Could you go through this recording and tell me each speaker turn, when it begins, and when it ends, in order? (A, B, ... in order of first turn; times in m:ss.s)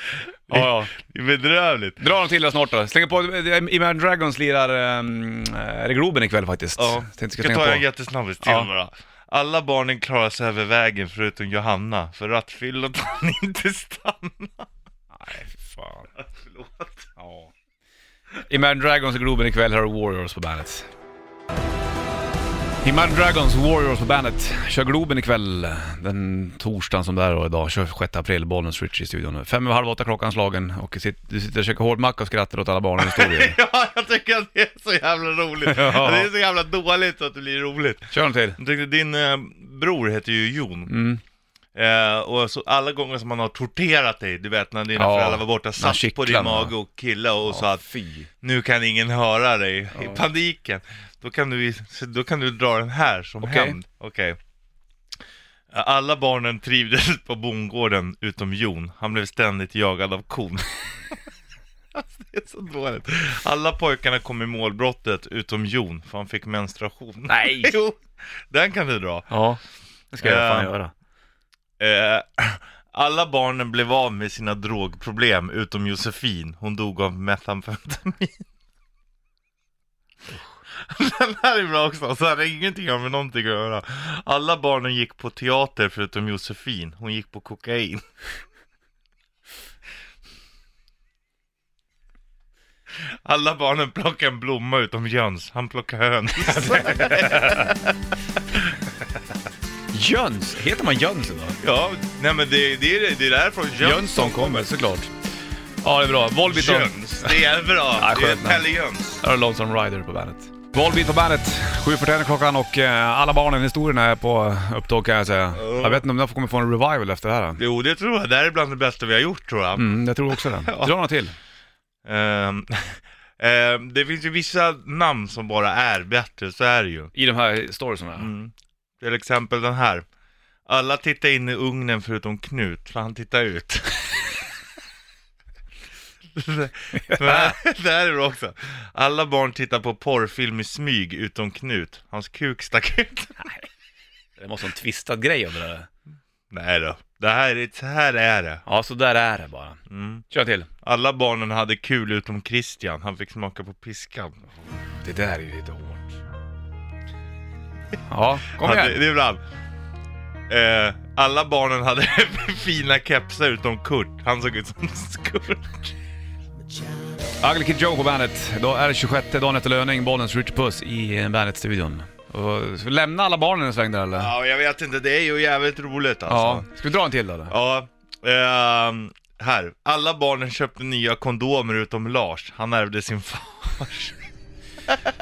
0:00.5-0:02.0 A
0:00.5-0:00.9 B
0:02.0-0:07.8 B
0:06.8-0:14.7 A
0:08.4-0:08.7 B
0:15.1-0:16.1 B
0:16.2-0:17.1 A
0:17.2-0:17.5 B
0:18.4-0:20.9 B
0:22.8-0:33.6 B
0:33.0-0:40.9 A
0:35.7-0:36.3 B
0:38.1-0:38.6 B
0:40.9-0:41.2 B
0:41.7-0:47.8 A
0:45.0-0:46.7 B
0:47.4-0:48.3 B
0:48.4-0:54.4 A
0:49.9-0:50.2 B
0:53.4-0:53.8 B
0:55.7-1:00.8 A
1:01.9-1:09.3 A
1:07.3-1:07.8 B
1:09.3-1:09.6 B
1:10.1-1:10.9 B
1:10.2-1:10.7 A
1:11.8-1:18.4 A
1:20.8-1:28.0 A
1:33.2-1:37.9 A
1:36.4-1:37.7 B
1:39.9-1:41.6 B
1:41.6-1:44.6 A
1:43.8-1:45.1 B
1:45.8-1:47.4 B
1:46.4-1:49.2 A
1:47.9-1:48.6 B
1:49.2-1:57.6 B
1:55.6-1:56.0 A
1:57.6-2:00.9 A
1:59.8-2:01.3 B
2:02.0-2:07.1 A
2:07.1-2:08.3 B
2:08.2-2:10.0 A
2:10.7-2:14.2 A
2:16.4-2:23.4 A
2:16.9-2:17.5 B
2:24.4-2:25.9 B
2:26.5-2:28.6 A
2:28.6-2:30.7 B
2:29.9-2:30.2 A
2:30.8-2:34.4 A
2:35.0-2:36.2 B
2:38.1-2:39.0 B
2:38.6-2:39.4 A
2:40.5-2:45.9 A
2:47.4-2:54.3 B
2:54.1-2:56.6 A
2:56.3-2:57.5 B
2:57.5-3:04.2 A